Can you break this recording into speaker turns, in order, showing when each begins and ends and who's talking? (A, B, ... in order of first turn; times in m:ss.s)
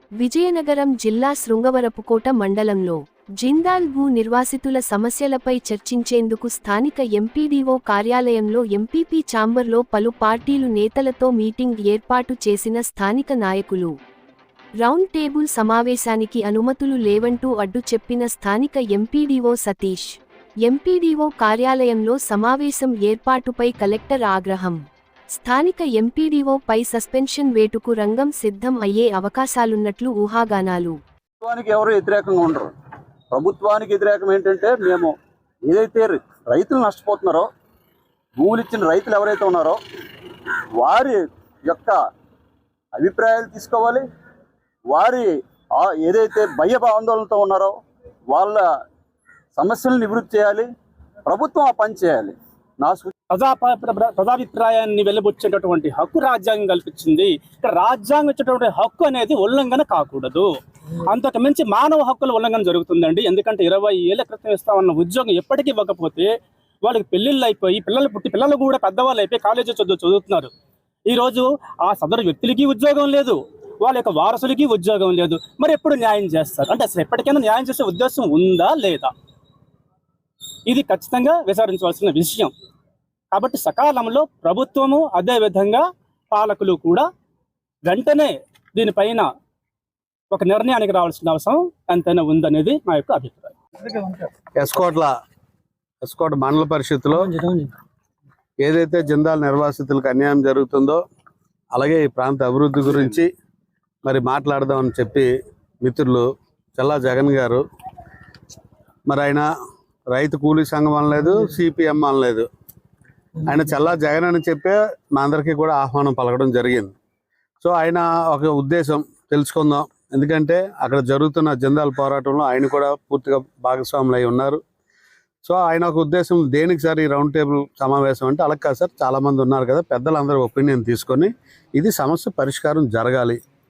0:00.2-0:14.0 A
0:14.8-0:24.8 A
0:25.4-0:31.0 A
0:31.4-0:32.7 B
0:33.3-0:35.1 B
0:35.6-0:37.5 B
0:38.4-0:39.8 B
0:40.8-0:42.0 B
0:43.0-0:44.0 B
0:44.9-0:47.8 B
0:48.3-0:48.6 B
0:49.6-0:50.7 B
0:51.3-0:53.1 B
0:53.3-1:00.5 C
1:01.1-1:06.3 C
1:06.8-1:10.5 C
1:11.1-1:19.1 C
1:20.7-1:22.5 C
1:23.3-1:27.1 C
1:27.8-1:29.3 C
1:30.3-1:34.2 C
1:34.6-1:35.1 D
1:36.0-1:37.4 D
1:37.4-1:37.7 C
1:38.6-1:41.0 D
1:41.8-1:43.3 D
1:44.0-1:45.3 D
1:45.8-1:47.6 D
1:49.1-1:49.5 D
1:50.1-1:52.5 D
1:53.4-1:56.9 D
1:57.6-2:04.6 D
2:05.4-2:13.4 D